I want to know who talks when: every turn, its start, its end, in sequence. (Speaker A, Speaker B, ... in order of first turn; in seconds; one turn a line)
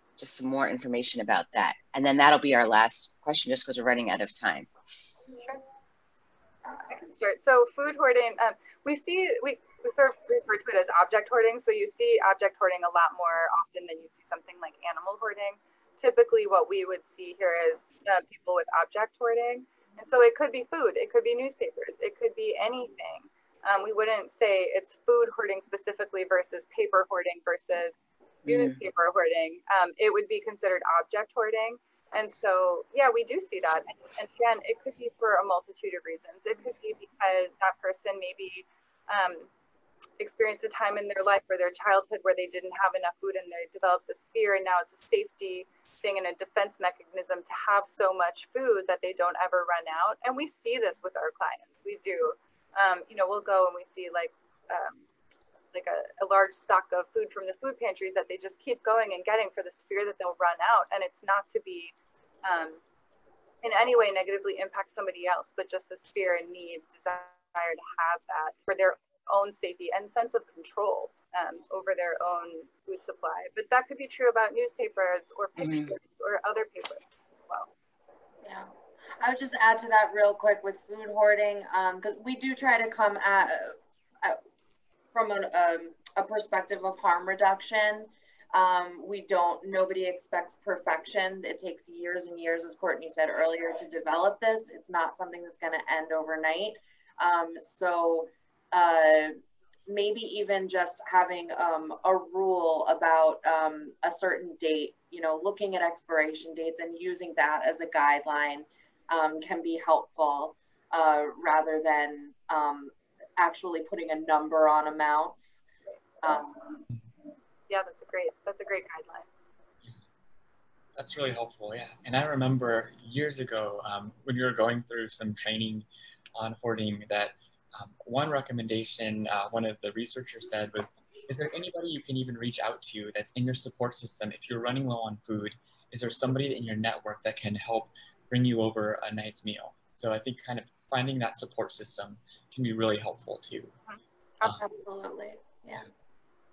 Speaker A: 0.2-4.7
Speaker B: 6.9-27.9
Speaker A: 28.4-28.8
Speaker B: 28.5-39.5
Speaker B: 40.2-55.0
Speaker B: 55.7-61.9
Speaker B: 62.4-62.8
Speaker B: 63.6-77.7
Speaker A: 75.6-75.9
Speaker C: 78.4-78.7
Speaker C: 79.2-84.4
Speaker C: 85.1-99.3
Speaker C: 99.9-115.6
Speaker C: 116.2-116.8
Speaker B: 117.7-119.3
Speaker D: 121.0-143.7
Speaker C: 144.4-145.8